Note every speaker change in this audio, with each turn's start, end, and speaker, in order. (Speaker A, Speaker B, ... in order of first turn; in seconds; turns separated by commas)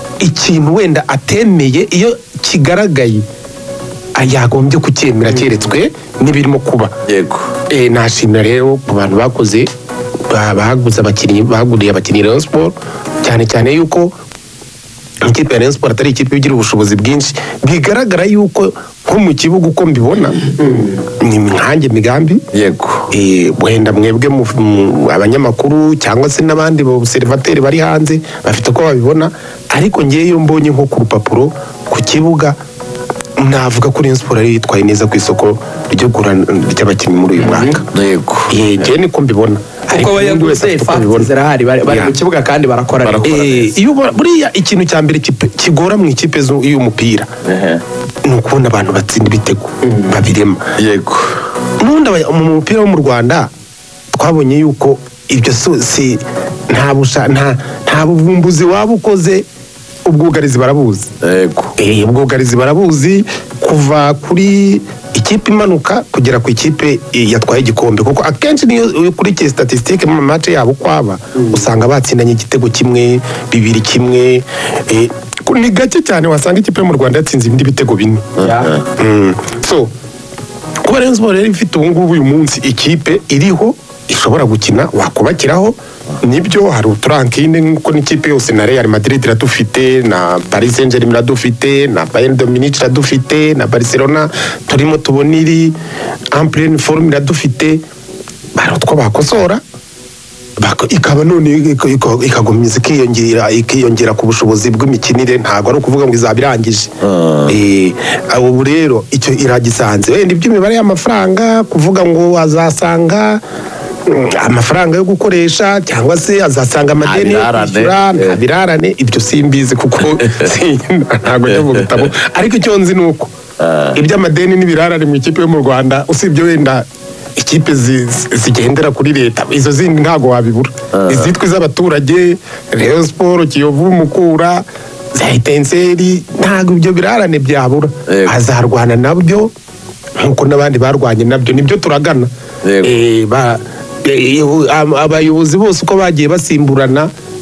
Speaker A: 0.2-3.2, Speaker A: 4.2-6.9, Speaker B: 7.1-7.5, Speaker A: 7.7-9.7, Speaker A: 10.3-14.1, Speaker A: 15.3-20.4, Speaker C: 20.5-20.9, Speaker A: 21.2-22.4, Speaker B: 22.5-23.1, Speaker A: 23.1-32.6, Speaker A: 33.4-37.9, Speaker C: 37.4-37.8, Speaker B: 37.9-38.5, Speaker A: 38.5-41.3, Speaker C: 39.9-43.6, Speaker A: 41.9-42.1, Speaker B: 43.0-43.7, Speaker A: 43.2-47.3, Speaker B: 47.5-47.8, Speaker A: 48.2-50.6, Speaker C: 49.9-50.1, Speaker B: 50.8-51.3, Speaker A: 51.8-53.5, Speaker A: 54.1-59.5, Speaker A: 60.0-61.1, Speaker B: 61.2-61.7, Speaker A: 61.8-78.3, Speaker B: 78.4-78.8, Speaker C: 78.4-78.7, Speaker A: 79.0-79.9, Speaker A: 80.9-95.8, Speaker A: 96.3-97.8, Speaker A: 98.6-99.6, Speaker A: 100.6-106.9, Speaker B: 107.0-107.6, Speaker A: 107.5-113.4, Speaker A: 114.1-123.3, Speaker B: 117.0-118.4, Speaker B: 120.2-120.5, Speaker B: 121.5-122.1, Speaker B: 123.6-124.0, Speaker A: 124.0-126.8, Speaker A: 127.4-139.5, Speaker B: 130.9-131.3, Speaker B: 138.1-138.4, Speaker A: 140.2-142.3, Speaker B: 142.6-142.9, Speaker A: 142.8-147.1